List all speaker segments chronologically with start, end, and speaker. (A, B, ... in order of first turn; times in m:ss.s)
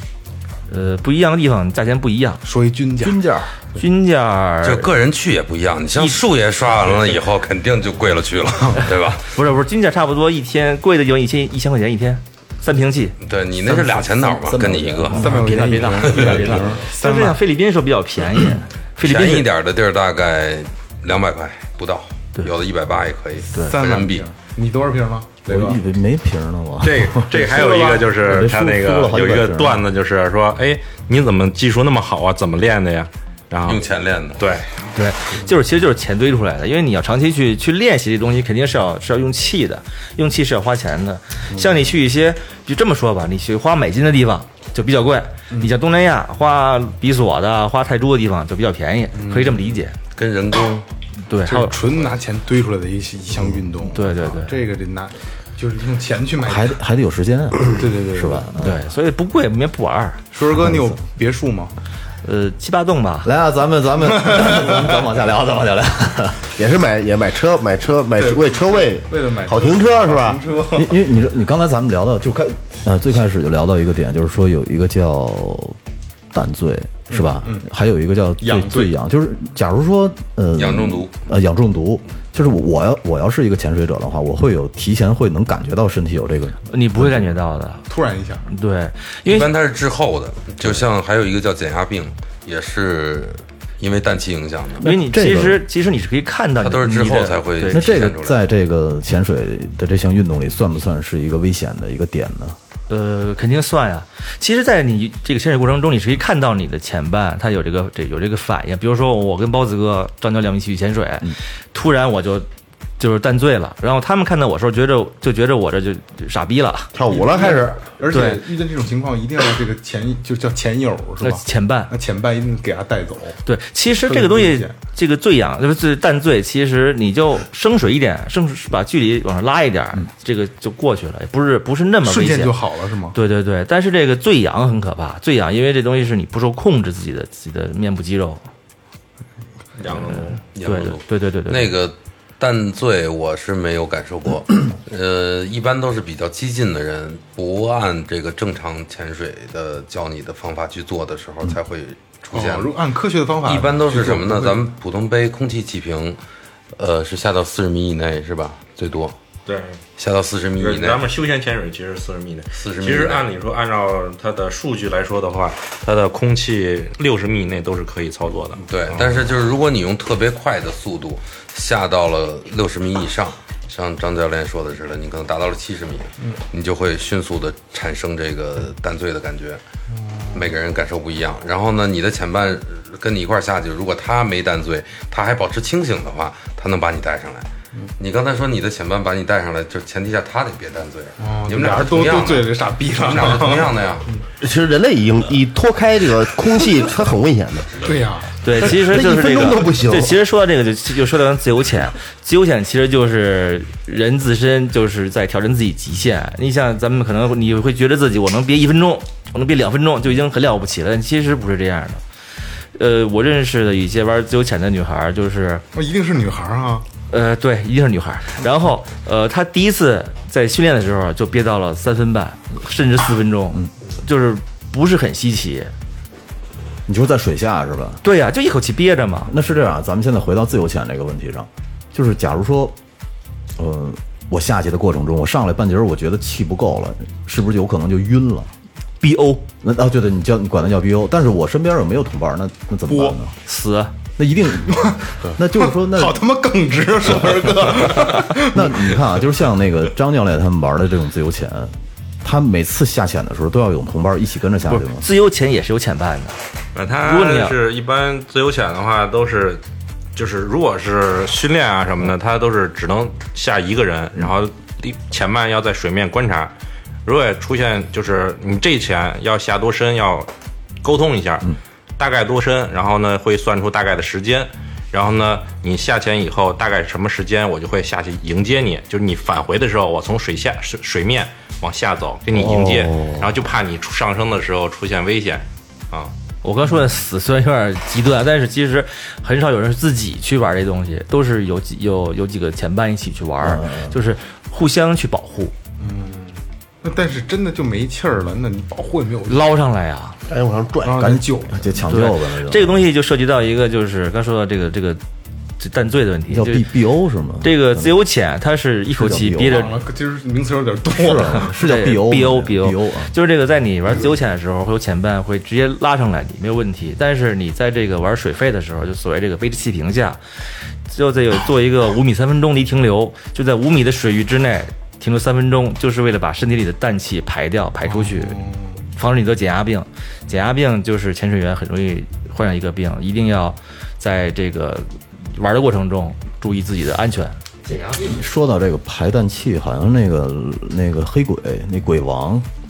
0:00.7-0:02.4 A
0:02.4-0:03.2 B
0:03.0-0:03.6 C
0:03.8-0:04.9 A
0:04.6-0:09.3 D
0:06.0-0:06.2 A
0:08.8-0:13.2 A
0:13.2-0:15.3 D
0:13.6-0:16.8 C
0:15.1-0:17.4 B
0:15.2-0:19.5 A
0:16.2-0:16.5 D
0:19.0-0:24.3 D
0:23.5-0:25.8 B
0:25.5-0:29.9 C
0:26.8-0:33.8 E
0:33.6-0:34.4 D
0:34.4-0:34.7 E
0:34.9-0:50.0 A
0:41.5-0:41.8 B
0:49.1-0:49.8 B
0:50.2-0:50.8 D
0:51.3-0:51.7 A
0:51.4-0:56.8 B
0:53.9-0:54.6 A
0:56.4-0:58.8 C
0:57.7-0:58.6 B
0:58.6-1:00.2 A
1:00.3-1:01.7 B
1:00.5-1:01.0 C
1:02.2-1:03.3 A
1:03.2-1:06.5 C
1:04.3-1:04.8 B
1:06.6-1:10.4 F
1:08.2-1:11.0 B
1:10.7-1:15.8 C
1:16.3-1:27.3 C
1:17.1-1:17.7 B
1:18.4-1:18.9 B
1:20.6-1:21.1 D
1:26.7-1:27.9 A
1:27.9-1:28.5 B
1:28.5-1:29.5 A
1:29.2-1:34.9 D
1:34.8-1:35.6 C
1:34.8-1:38.1 A
1:36.6-1:38.4 D
1:37.7-1:42.6 C
1:42.9-1:52.5 A
1:53.0-1:56.9 A
1:57.0-1:57.7 F
1:57.1-2:03.4 B
1:58.1-1:58.4 A
2:01.2-2:01.9 A
2:03.4-2:12.6 A
2:04.0-2:04.7 B
2:12.0-2:13.2 B
2:13.1-2:18.4 A
2:19.8-2:20.4 E
2:20.5-2:21.7 A
2:20.6-2:32.7 D
2:32.3-2:34.6 B
2:33.4-2:36.2 D
2:36.8-2:39.2 D
2:39.5-2:39.8 E
2:40.0-2:41.1 D
2:40.6-2:49.0 E
2:42.6-2:43.3 D
2:48.7-2:59.6 D
3:00.0-3:00.4 B
3:00.3-3:07.5 D
3:08.0-3:14.1 D
3:11.2-3:14.2 B
3:14.4-3:17.7 F
3:17.8-3:18.4 B
3:18.4-3:32.0 A
3:18.6-3:20.2 F
3:32.8-3:35.6 A
3:35.7-3:36.9 B
3:37.1-3:45.7 A
3:46.9-3:48.0 C
3:48.0-3:49.3 A
3:49.3-3:52.8 C
3:53.6-3:58.5 C
3:59.0-3:59.4 A
3:59.6-4:03.4 C
4:03.5-4:03.9 A
4:04.2-4:06.2 C
4:04.7-4:09.2 B
4:07.1-4:15.1 C
4:14.7-4:16.4 A
4:16.8-4:19.6 E
4:17.0-4:17.6 A
4:20.2-4:26.5 E
4:27.0-4:30.3 E
4:30.8-4:46.1 E
4:42.3-4:43.2 C
4:46.4-4:55.5 A
4:53.4-4:54.0 C
4:55.8-4:59.5 B
4:59.3-5:00.2 A
5:00.3-5:01.0 F
5:00.8-5:01.7 B
5:01.0-5:02.9 C
5:01.9-5:05.0 A
5:05.6-5:06.7 A
5:06.3-5:08.0 C
5:07.4-5:09.7 A
5:08.9-5:09.7 C
5:09.5-5:11.5 B
5:10.9-5:13.1 C
5:11.5-5:20.2 A
5:20.9-5:28.4 A
5:27.9-5:28.8 B
5:29.0-5:37.4 A
5:37.9-5:42.5 C